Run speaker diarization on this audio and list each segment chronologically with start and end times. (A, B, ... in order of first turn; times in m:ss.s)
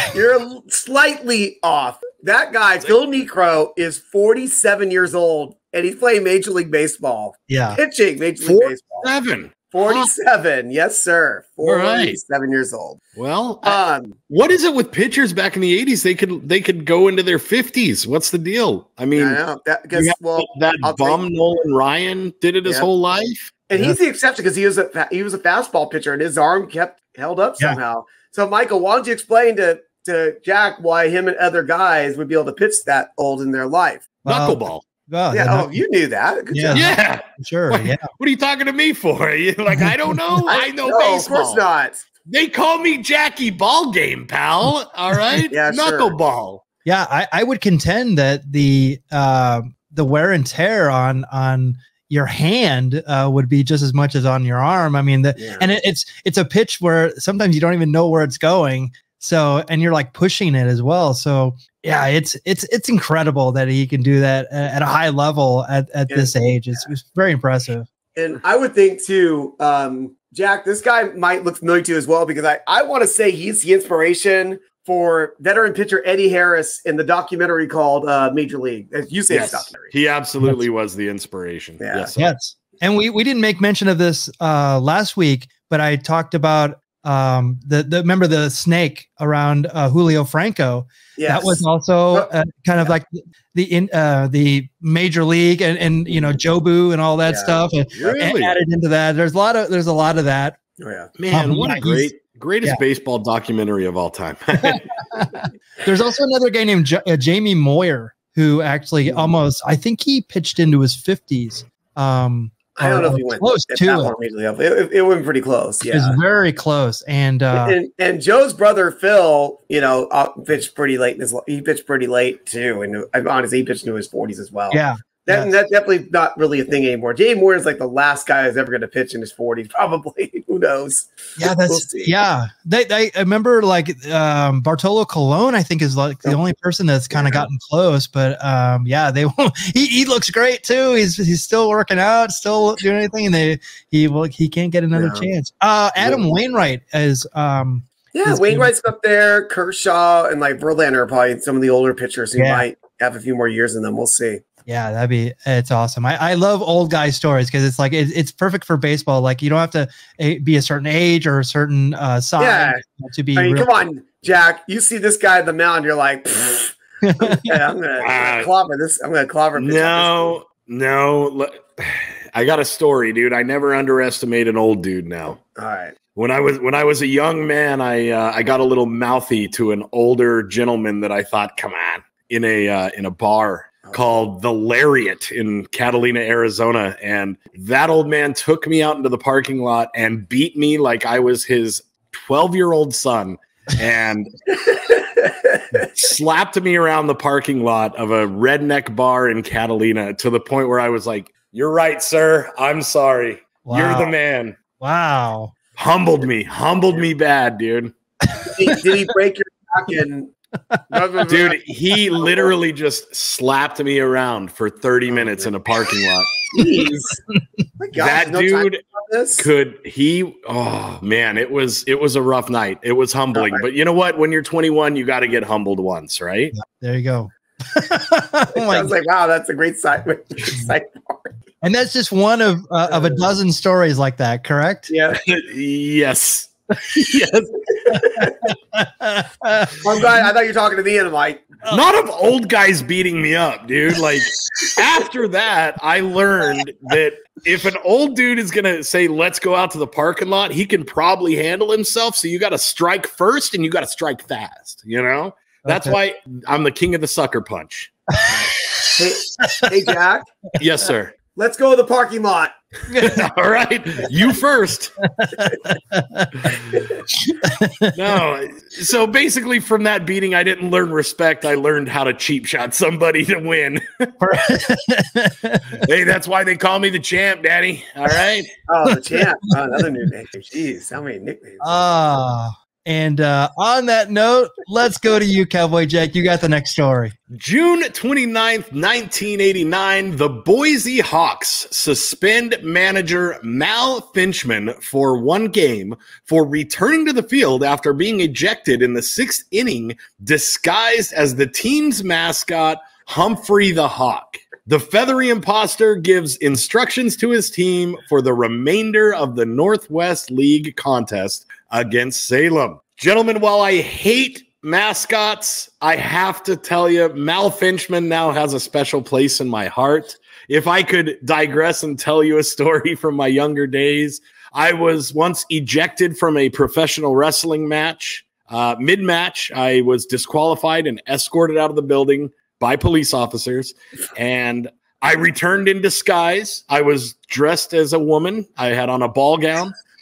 0:00.1-0:09.1 A
0:07.5-0:07.8 B
0:08.4-0:10.1 C
0:09.7-0:13.0 A
0:11.6-0:12.2 C
0:13.2-0:19.4 C
0:13.6-0:14.2 A
0:19.2-0:21.2 A
0:19.9-0:23.5 C
0:23.7-0:34.0 A
0:34.2-0:35.8 B
0:34.3-0:34.8 C
0:35.3-0:37.0 A
0:36.5-0:38.0 B
0:36.7-0:41.6 C
0:39.7-0:40.4 B
0:40.5-0:42.1 A
0:42.3-0:46.6 C
0:45.1-0:45.5 B
0:45.5-0:46.2 A
0:46.8-1:07.9 B
0:55.4-0:55.7 A
1:08.2-1:19.9 A
1:19.3-1:22.3 C
1:21.8-1:22.1 A
1:22.2-1:40.6 B
1:31.2-1:32.9 A
1:37.3-1:37.6 A
1:38.0-1:38.6 C
1:40.8-1:41.1 A
1:41.2-1:44.8 C
1:41.3-1:42.1 B
1:44.6-1:54.1 B
1:49.0-1:49.3 A
1:52.8-1:56.2 A
1:55.9-1:57.8 B
1:57.5-2:12.1 A
2:04.7-2:05.5 B
2:11.4-2:28.7 B
2:17.1-2:17.5 A
2:24.9-2:25.3 A
2:26.0-2:26.2 A
2:28.1-2:34.4 A
2:32.4-2:32.6 B
2:34.7-2:43.7 B
2:42.4-2:42.8 A
2:43.4-2:50.4 A
2:47.0-2:47.5 B
2:48.0-2:48.5 C
2:49.6-2:55.4 C
2:55.6-2:55.9 A
2:56.2-3:14.3 C
3:14.7-3:15.9 A
3:15.9-3:24.6 C
3:23.7-3:24.1 B
3:24.8-3:25.5 B
3:25.8-3:27.9 C
3:28.4-3:30.3 A
3:30.9-3:31.6 A
3:31.3-3:36.4 C
3:32.2-3:32.5 A
3:35.1-3:35.5 A
3:36.5-3:37.2 A
3:36.6-3:37.4 B
3:37.8-3:39.5 A
3:38.0-3:38.8 C
3:39.4-3:46.6 C
3:43.4-3:43.6 A
3:46.6-3:48.9 B
3:48.5-3:51.4 A
3:51.6-3:54.9 B
3:52.9-3:53.3 A
3:54.9-3:55.2 A
3:55.2-3:57.6 C
3:57.8-3:58.4 A
3:57.9-4:00.1 B
3:59.8-4:01.5 A
4:01.7-4:17.9 C
4:15.6-4:16.0 B
4:18.3-4:20.3 A
4:19.4-4:19.7 B
4:20.6-4:21.1 C
4:21.4-4:22.6 A
4:22.9-4:23.2 B
4:23.0-4:24.9 C
4:25.0-4:26.5 B
4:27.1-4:28.2 B
4:27.9-4:34.2 C
4:34.2-4:35.8 B
4:35.8-4:38.5 C
4:38.7-4:41.8 A
4:41.6-4:47.2 B
4:47.3-5:39.8 C